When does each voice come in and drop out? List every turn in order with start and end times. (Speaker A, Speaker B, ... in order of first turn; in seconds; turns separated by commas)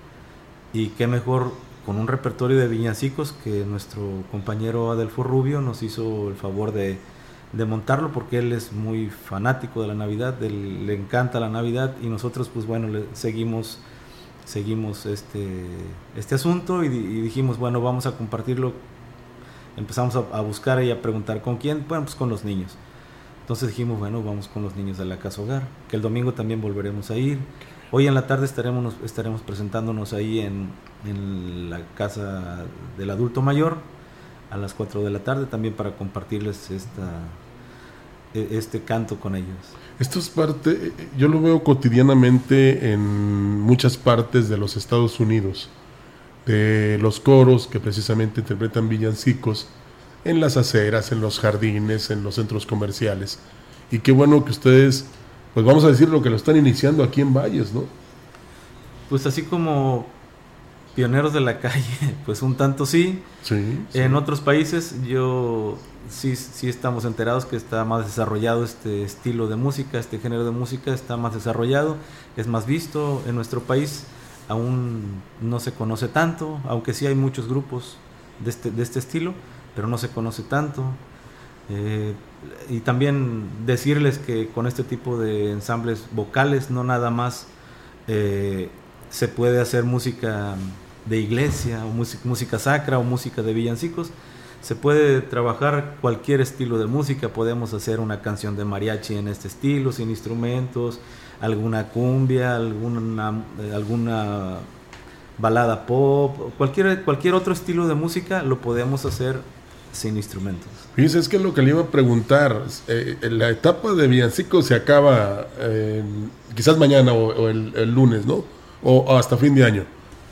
Speaker A: 0.7-13.8, Speaker A: 14.5-18.8, Speaker A: 19.8-22.8, Speaker A: 23.5-33.9, Speaker A: 34.5-37.4, Speaker A: 38.3-39.8, Speaker B: 40.0-45.7, Speaker B: 46.5-49.7, Speaker B: 50.2-57.9, Speaker A: 59.1-60.1, Speaker A: 61.0-63.3, Speaker B: 63.4-64.2, Speaker A: 63.9-81.0, Speaker A: 81.7-87.5, Speaker A: 88.1-104.7, Speaker A: 105.4-110.9, Speaker B: 111.0-119.9